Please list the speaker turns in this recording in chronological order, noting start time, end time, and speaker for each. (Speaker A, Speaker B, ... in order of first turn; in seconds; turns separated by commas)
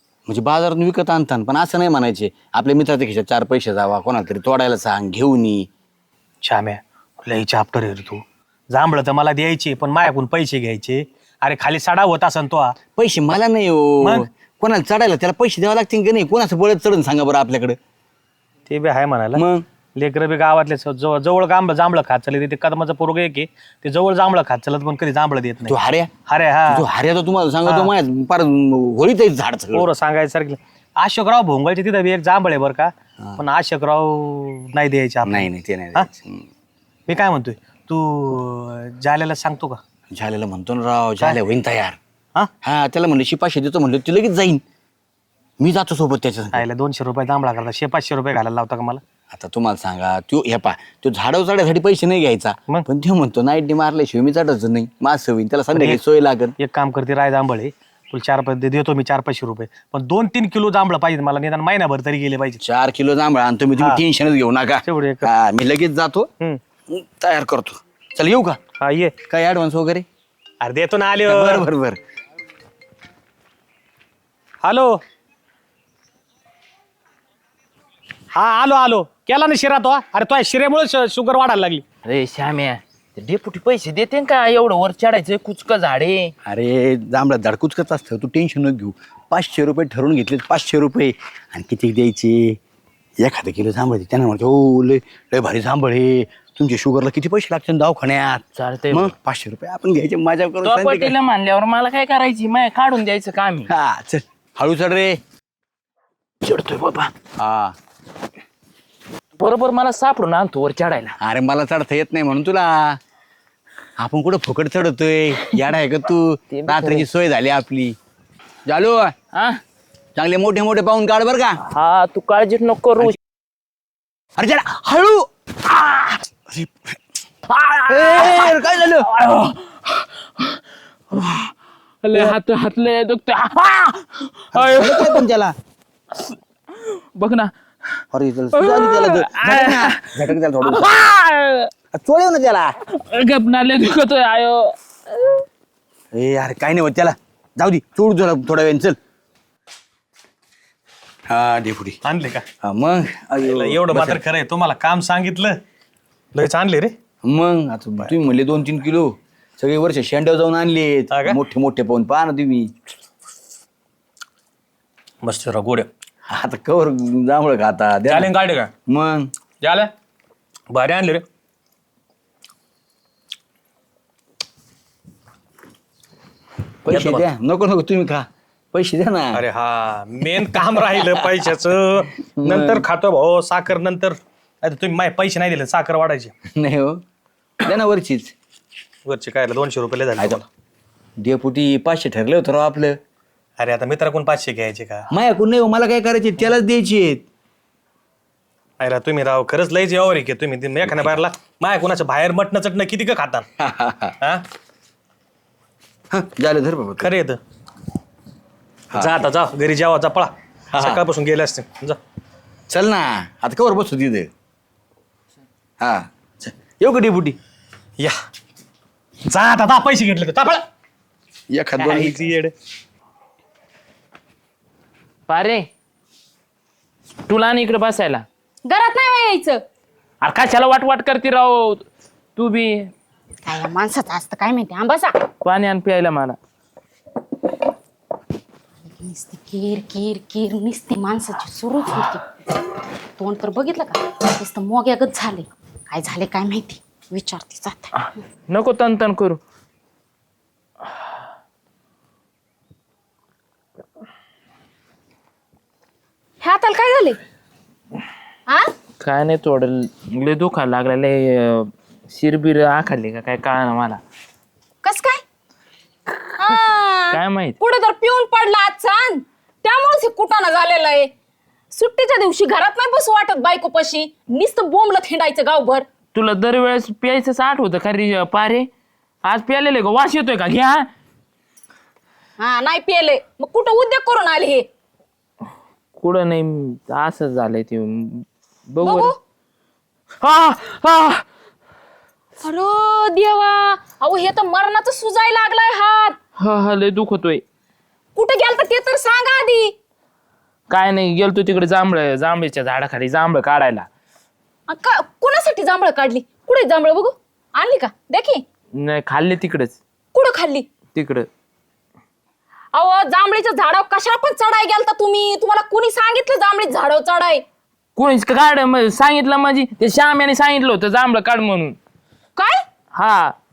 Speaker A: 0.3-5.7, Speaker B: 6.4-12.8, Speaker A: 12.9-17.8, Speaker B: 18.7-19.4, Speaker A: 19.4-19.6, Speaker B: 19.9-25.8, Speaker A: 25.7-26.1, Speaker B: 26.3-26.8, Speaker A: 26.7-29.9, Speaker B: 27.6-27.9, Speaker B: 29.7-36.1, Speaker A: 35.2-36.5, Speaker B: 37.1-39.8, Speaker A: 40.1-42.0, Speaker A: 42.6-44.6, Speaker A: 45.6-46.6, Speaker B: 46.5-49.0, Speaker A: 49.3-56.5, Speaker B: 55.7-56.0, Speaker B: 56.6-62.6, Speaker A: 62.6-66.3, Speaker B: 64.8-65.3, Speaker A: 66.9-68.6, Speaker B: 68.8-69.1, Speaker A: 69.3-70.0, Speaker B: 70.6-71.7, Speaker A: 71.2-72.0, Speaker B: 74.6-75.0, Speaker B: 78.3-81.8, Speaker C: 82.0-86.3, Speaker A: 86.4-92.6, Speaker A: 93.2-101.1, Speaker C: 98.6-99.1, Speaker C: 100.6-103.7, Speaker A: 103.7-105.2, Speaker C: 106.4-107.1, Speaker A: 107.4-107.8, Speaker C: 109.4-111.1, Speaker A: 111.2-113.0, Speaker A: 114.0-118.0, Speaker C: 116.5-117.1, Speaker A: 118.7-119.1, Speaker C: 119.3-119.6, Speaker A: 120.2-121.6, Speaker C: 121.6-123.2, Speaker A: 124.4-125.3, Speaker A: 126.5-127.0, Speaker C: 127.5-130.6, Speaker A: 127.9-129.1, Speaker C: 131.1-135.3, Speaker A: 134.5-135.6, Speaker C: 136.2-137.5, Speaker A: 138.1-140.9, Speaker C: 138.5-141.7, Speaker A: 141.9-142.8, Speaker C: 142.9-145.3, Speaker A: 146.1-149.0, Speaker A: 151.3-152.0, Speaker B: 152.0-152.4, Speaker A: 152.6-154.2, Speaker B: 153.4-155.6, Speaker B: 156.4-156.9, Speaker A: 157.2-162.7, Speaker B: 161.1-161.4, Speaker B: 165.2-165.9, Speaker A: 166.3-168.3, Speaker B: 168.1-168.7, Speaker A: 168.9-169.3, Speaker B: 169.6-169.9, Speaker B: 170.7-171.2, Speaker A: 176.8-179.4, Speaker B: 176.9-177.3, Speaker B: 179.3-186.3, Speaker A: 180.8-181.3, Speaker A: 182.4-182.8, Speaker A: 186.5-187.0, Speaker A: 187.6-188.3, Speaker B: 189.1-190.4, Speaker A: 191.2-193.0, Speaker B: 193.6-195.1, Speaker A: 195.1-197.2, Speaker B: 198.8-203.4, Speaker A: 200.8-201.1, Speaker A: 203.6-204.1, Speaker A: 206.1-207.1, Speaker B: 207.0-207.4, Speaker A: 208.9-209.2, Speaker B: 208.9-212.0, Speaker A: 210.7-211.0, Speaker A: 212.7-214.3, Speaker A: 215.8-217.4, Speaker B: 219.3-220.6, Speaker A: 221.5-222.2, Speaker B: 221.8-222.5, Speaker C: 225.3-225.7, Speaker C: 227.2-228.2, Speaker D: 228.6-229.6, Speaker C: 230.2-232.9, Speaker D: 233.4-235.2, Speaker C: 235.4-236.4, Speaker D: 238.9-242.2, Speaker D: 243.2-247.9, Speaker C: 248.5-249.4, Speaker D: 256.4-257.2, Speaker C: 259.0-264.0, Speaker D: 264.8-265.2, Speaker C: 266.1-267.6, Speaker D: 266.4-271.1, Speaker D: 271.7-275.9, Speaker C: 276.1-278.7, Speaker C: 279.2-280.9, Speaker D: 282.4-284.6, Speaker C: 286.0-289.1, Speaker D: 288.8-289.1, Speaker C: 290.2-291.2, Speaker D: 292.4-296.2, Speaker C: 296.4-297.4, Speaker D: 298.1-299.8, Speaker C: 300.7-303.9, Speaker D: 304.7-308.4, Speaker C: 308.8-309.8, Speaker D: 310.1-310.7, Speaker C: 310.9-311.3, Speaker D: 312.7-317.4, Speaker C: 317.9-321.8, Speaker D: 322.4-322.6, Speaker C: 322.9-323.3